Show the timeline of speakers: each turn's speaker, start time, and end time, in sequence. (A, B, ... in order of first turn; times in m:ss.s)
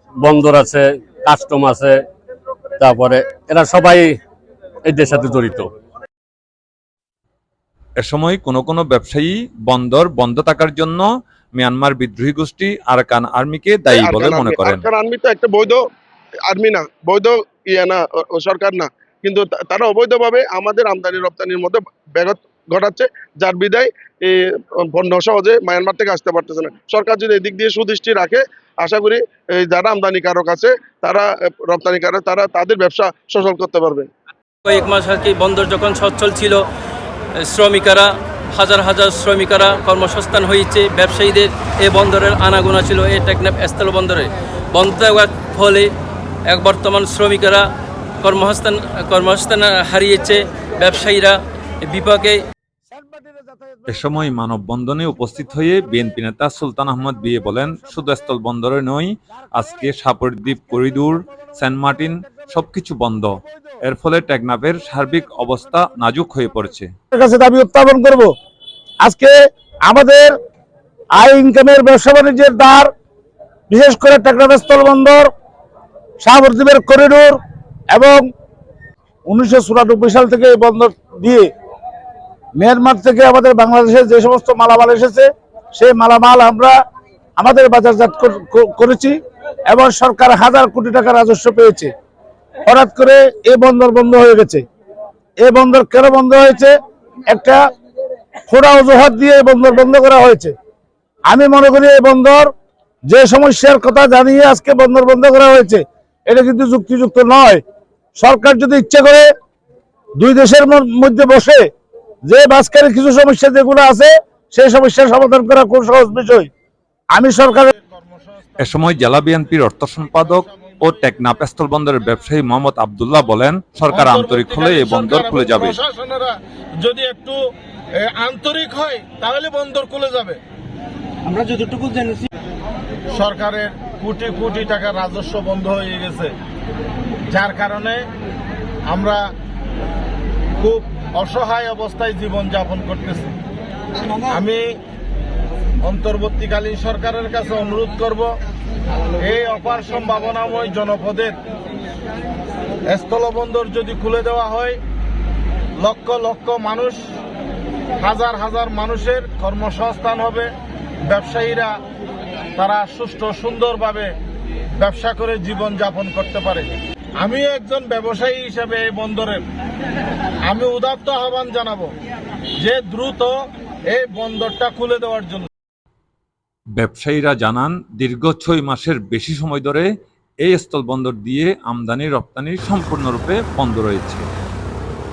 0:00.2-0:02.0 A
0:02.8-0:04.2 A
0:04.8-0:05.7 A
0:08.0-0:14.9 B
0:13.9-0:15.8 C
0:16.4-0:34.1 C
0:34.6-0:36.6 D
0:37.4-0:45.9 D
0:46.5-0:47.7 D
0:48.2-0:52.4 D
0:53.9-1:06.9 B
1:07.1-1:08.3 E
1:09.0-1:09.3 E
1:09.9-1:10.4 E
1:11.1-1:12.9 E
1:13.7-1:15.3 E
1:16.2-1:17.4 E
1:17.9-1:18.2 E
1:19.3-1:21.5 E
1:22.6-1:26.8 E
1:27.4-1:31.9 E
1:32.6-1:34.6 E
1:35.4-1:36.8 E
1:37.3-1:37.6 E
1:38.5-1:40.5 E
1:41.3-1:42.5 E
1:43.1-1:47.6 E
1:48.2-1:49.3 E
1:50.2-1:51.7 E
1:52.2-1:56.5 E
1:57.1-1:57.7 E
1:57.7-2:01.4 F
1:58.6-2:05.8 B
2:03.9-2:07.4 F
2:08.0-2:10.4 F
2:13.1-2:16.3 F
2:17.3-2:18.0 F
2:18.9-2:19.3 F
2:20.6-2:23.3 F
2:24.3-2:24.8 F
2:25.8-2:28.3 F
2:29.2-2:31.4 F
2:32.8-2:34.8 F
2:35.8-2:37.0 F
2:38.0-2:40.5 F
2:41.0-2:41.8 F
2:42.6-2:44.1 F
2:44.8-2:49.4 F
2:50.5-2:51.9 F
2:52.6-2:53.3 F
2:53.9-2:55.5 F
2:56.8-2:59.9 B
3:00.4-3:04.2 B